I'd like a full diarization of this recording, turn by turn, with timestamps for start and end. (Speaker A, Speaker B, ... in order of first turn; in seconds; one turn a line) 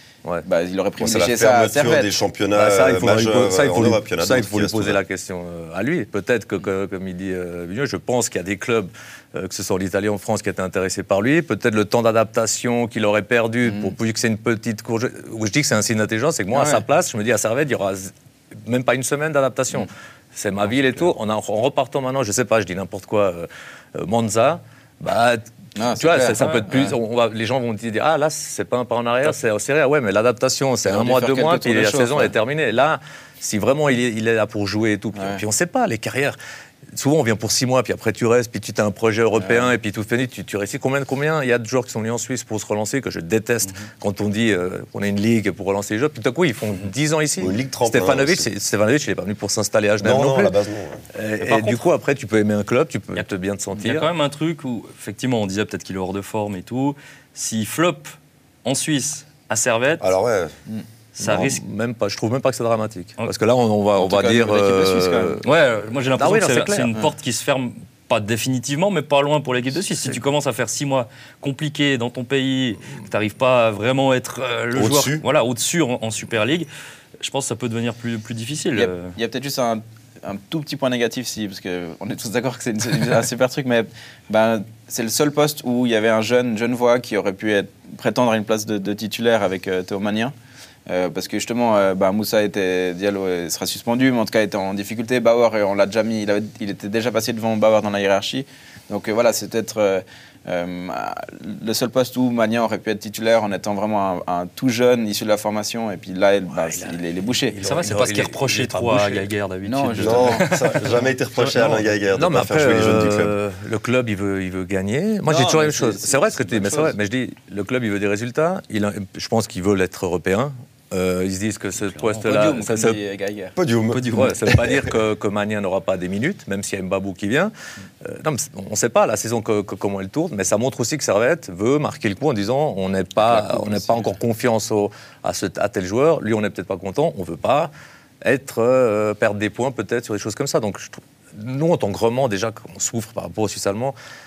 Speaker A: 0.4-2.1
Speaker B: 1.0-5.0
Speaker C: 2.5-18.1
Speaker A: 13.7-13.9
Speaker A: 16.5-16.8
Speaker C: 18.6-36.4
Speaker A: 25.8-27.0
Speaker D: 26.4-26.7
Speaker A: 30.8-32.3
Speaker A: 35.1-35.4
Speaker C: 36.9-50.5
Speaker A: 39.4-39.7
Speaker B: 47.4-48.5
Speaker B: 50.0-51.0
Speaker C: 51.1-54.1
Speaker D: 53.1-58.1
Speaker D: 58.6-60.0
Speaker B: 60.0-60.5
Speaker D: 61.2-61.6
Speaker C: 61.2-65.4
Speaker A: 64.0-65.4
Speaker D: 65.4-76.7
Speaker C: 66.2-66.9
Speaker B: 74.7-75.2
Speaker D: 77.2-79.1
Speaker A: 78.8-90.3
Speaker A: 90.9-107.6
Speaker C: 106.5-109.3
Speaker D: 107.6-111.9
Speaker A: 109.6-110.4
Speaker B: 110.0-113.3
Speaker C: 112.1-123.0
Speaker A: 115.3-117.0
Speaker D: 121.9-122.2
Speaker A: 122.2-123.5
Speaker B: 123.5-124.8
Speaker D: 123.9-124.4
Speaker C: 124.1-127.5
Speaker C: 128.0-143.9
Speaker A: 133.2-134.2